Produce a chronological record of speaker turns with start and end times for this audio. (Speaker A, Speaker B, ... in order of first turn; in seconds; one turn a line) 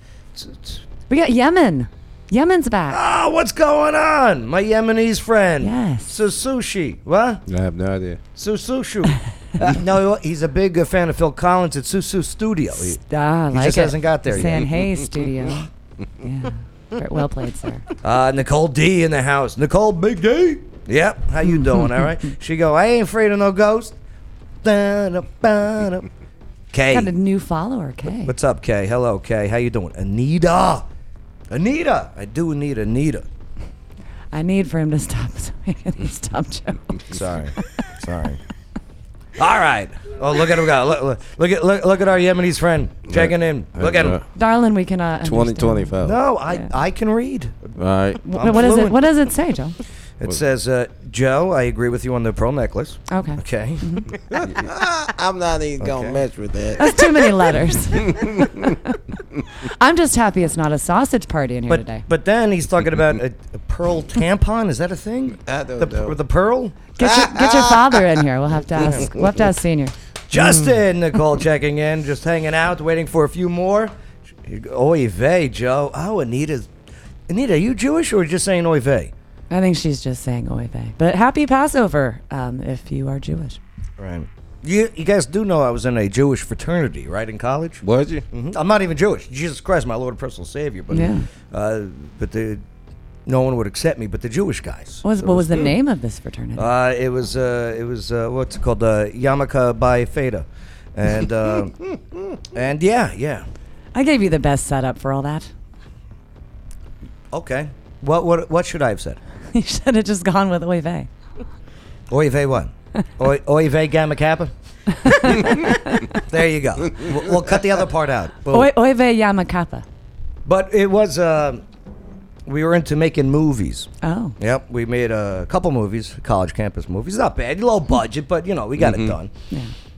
Speaker A: 0.3-0.8
Speaker B: 1.1-3.0
Speaker A: 2.9-7.4
Speaker B: 5.6-6.2
Speaker C: 7.5-8.2
Speaker A: 8.3-14.7
Speaker B: 12.8-15.7
Speaker B: 16.2-17.8
Speaker A: 18.0-24.0
Speaker A: 24.6-26.1
Speaker A: 26.7-27.1
Speaker B: 26.9-28.3
Speaker A: 28.2-30.9
Speaker A: 31.5-33.3
Speaker B: 34.3-37.0
Speaker A: 37.1-38.4
Speaker B: 37.6-37.8
Speaker A: 39.4-44.2
Speaker C: 43.1-44.2
Speaker B: 44.4-46.0
Speaker C: 45.2-46.2
Speaker A: 46.0-47.7
Speaker C: 47.8-48.2
Speaker B: 48.2-49.8
Speaker A: 48.3-49.0
Speaker A: 50.2-54.7
Speaker B: 53.1-54.1
Speaker C: 54.3-57.4
Speaker A: 55.8-56.2
Speaker B: 56.8-59.0
Speaker C: 57.9-58.8
Speaker B: 59.6-62.0
Speaker A: 61.7-66.8
Speaker C: 65.4-66.2
Speaker B: 67.0-69.9
Speaker C: 67.0-68.1
Speaker C: 68.9-69.3
Speaker A: 70.3-73.9
Speaker A: 74.4-76.7
Speaker A: 77.3-79.1
Speaker B: 79.5-83.6
Speaker A: 84.0-92.6
Speaker C: 87.8-88.2
Speaker B: 90.9-91.3
Speaker A: 93.2-95.7
Speaker B: 95.0-96.7
Speaker A: 96.5-101.8
Speaker A: 102.5-103.5
Speaker B: 103.9-105.5
Speaker A: 107.3-109.2
Speaker B: 109.5-111.1
Speaker A: 112.1-114.5
Speaker B: 115.0-116.2
Speaker A: 115.0-118.7
Speaker B: 118.5-119.8
Speaker A: 120.4-121.6
Speaker A: 122.5-129.3
Speaker B: 124.0-124.4
Speaker C: 128.8-129.1